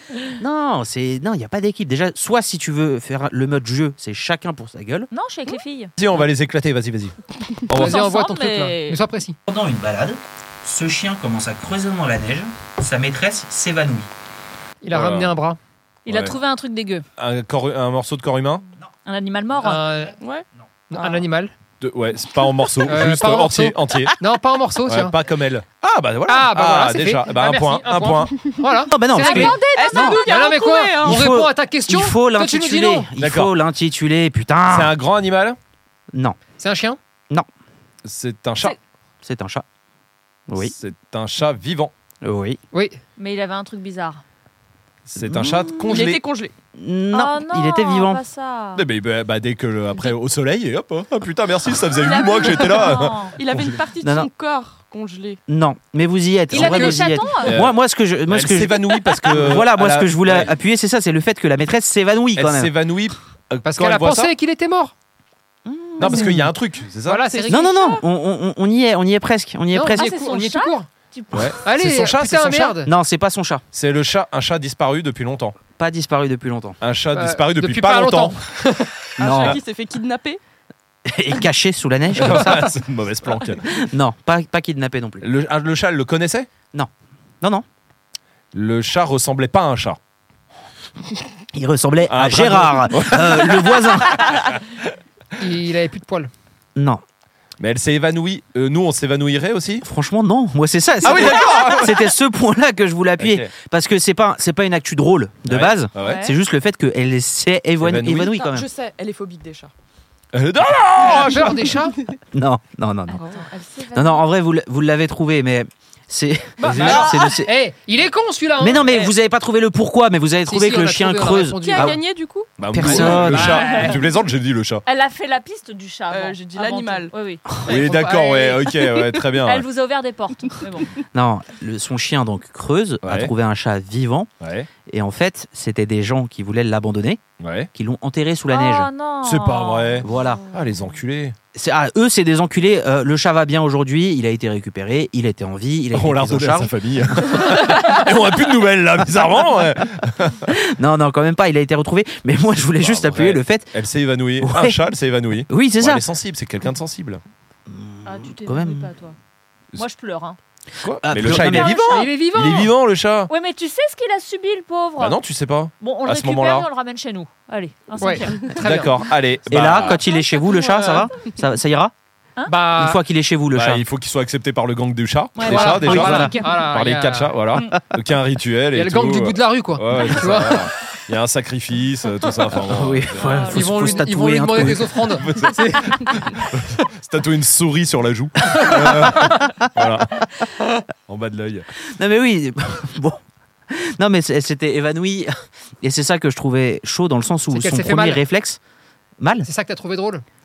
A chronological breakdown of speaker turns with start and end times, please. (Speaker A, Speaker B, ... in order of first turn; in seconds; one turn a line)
Speaker A: 0.4-5.1
Speaker B: 5.1-5.9
Speaker C: 6.0-7.1
Speaker C: 7.7-8.0
Speaker D: 7.7-9.4
Speaker B: 7.8-9.0
Speaker A: 9.5-14.1
Speaker D: 14.8-15.6
Speaker C: 14.9-15.3
Speaker B: 16.1-17.1
Speaker C: 16.1-16.4
Speaker C: 17.2-18.6
Speaker B: 19.1-19.9
Speaker D: 19.6-20.2
Speaker E: 20.2-20.4
Speaker D: 20.9-21.5
Speaker C: 21.8-24.2
Speaker D: 22.8-25.2
Speaker C: 24.9-28.5
Speaker D: 26.3-33.1
Speaker A: 28.9-30.3
Speaker B: 29.1-29.9
Speaker E: 29.1-31.2
Speaker A: 31.0-34.9
Speaker C: 33.2-33.6
Speaker C: 34.7-35.6
Speaker D: 36.6-37.0
Speaker C: 38.0-38.8
Speaker A: 39.2-39.6
Speaker A: 40.5-40.7
Speaker C: 40.6-41.9
Speaker A: 42.2-42.6
Speaker D: 42.7-43.0
Speaker B: 43.2-44.2
Speaker C: 45.1-46.2
Speaker A: 45.2-46.1
Speaker E: 45.9-46.5
Speaker A: 46.7-48.2
Speaker B: 47.1-48.9
Speaker C: 48.8-53.8
Speaker B: 51.9-53.4
Speaker E: 52.4-55.4
Speaker A: 54.0-54.3
Speaker A: 55.5-62.7
Speaker B: 56.5-57.5
Speaker D: 56.5-57.3
Speaker C: 57.4-57.8
Speaker C: 58.3-60.5
Speaker C: 62.4-64.3
Speaker D: 63.7-64.9
Speaker A: 65.7-66.5
Speaker C: 66.0-67.2
Speaker D: 66.1-66.4
Speaker D: 67.0-67.7
Speaker E: 67.2-68.0
Speaker A: 67.5-70.1
Speaker D: 69.7-70.9
Speaker B: 69.9-71.6
Speaker C: 71.3-72.8
Speaker D: 71.6-72.9
Speaker A: 72.8-73.6
Speaker C: 73.7-75.6
Speaker A: 75.8-76.8
Speaker C: 76.8-78.4
Speaker D: 77.1-78.9
Speaker E: 79.2-80.4
Speaker A: 79.2-79.6
Speaker C: 79.2-79.6
Speaker A: 81.0-82.7
Speaker C: 82.2-83.9
Speaker A: 83.6-85.2
Speaker C: 85.2-86.5
Speaker C: 88.5-90.0
Speaker A: 91.5-94.4
Speaker C: 92.1-94.6
Speaker D: 95.4-96.3
Speaker A: 96.8-97.0
Speaker C: 97.6-99.8
Speaker A: 99.8-108.7
Speaker C: 101.0-102.1
Speaker C: 103.2-103.5
Speaker C: 105.5-106.2
Speaker B: 106.0-106.3
Speaker C: 107.8-108.3
Speaker E: 108.3-109.7
Speaker C: 110.3-111.7
Speaker E: 111.1-111.7
Speaker D: 111.1-112.0
Speaker A: 112.3-113.2
Speaker B: 113.2-114.2
Speaker E: 113.2-114.0
Speaker A: 113.9-117.5
Speaker E: 116.6-117.3
Speaker D: 116.6-118.9
Speaker A: 118.6-122.0
Speaker E: 118.8-119.1
Speaker D: 120.5-122.0
Speaker E: 121.6-123.8
Speaker C: 122.6-124.8
Speaker A: 122.7-123.6
Speaker D: 123.0-124.0
Speaker B: 123.4-123.9
Speaker B: 124.9-127.5
Speaker E: 126.1-127.1
Speaker C: 127.6-129.7
Speaker D: 127.7-128.7
Speaker B: 129.4-130.9
Speaker A: 131.1-134.3
Speaker C: 133.0-133.3
Speaker C: 134.4-134.7
Speaker A: 134.8-137.2
Speaker C: 137.4-137.7
Speaker A: 137.7-138.9
Speaker B: 138.5-140.1
Speaker C: 139.2-141.4
Speaker A: 140.0-140.4
Speaker A: 141.5-146.7
Speaker C: 145.9-150.6
Speaker A: 150.5-153.8
Speaker C: 152.8-157.2
Speaker A: 154.4-154.8
Speaker A: 155.5-156.0
Speaker A: 157.7-158.9
Speaker B: 158.1-159.2
Speaker B: 159.8-160.4
Speaker C: 160.8-163.3
Speaker A: 161.0-161.8
Speaker B: 161.2-162.1
Speaker D: 161.8-162.7
Speaker B: 163.3-165.2
Speaker C: 165.0-166.7
Speaker B: 165.8-168.6
Speaker D: 168.0-169.1
Speaker C: 168.5-170.0
Speaker A: 169.5-171.9
Speaker B: 169.8-171.1
Speaker D: 172.5-173.0
Speaker A: 172.8-173.8
Speaker C: 173.5-183.5
Speaker B: 175.4-176.6
Speaker D: 175.4-177.4
Speaker A: 175.6-176.3
Speaker D: 178.7-180.7
Speaker A: 182.6-185.1
Speaker B: 183.2-184.1
Speaker D: 183.4-186.5
Speaker C: 185.1-190.3
Speaker D: 188.5-189.4
Speaker C: 191.1-191.7
Speaker A: 191.8-198.6
Speaker D: 197.5-198.2
Speaker A: 199.2-199.5
Speaker D: 199.4-200.2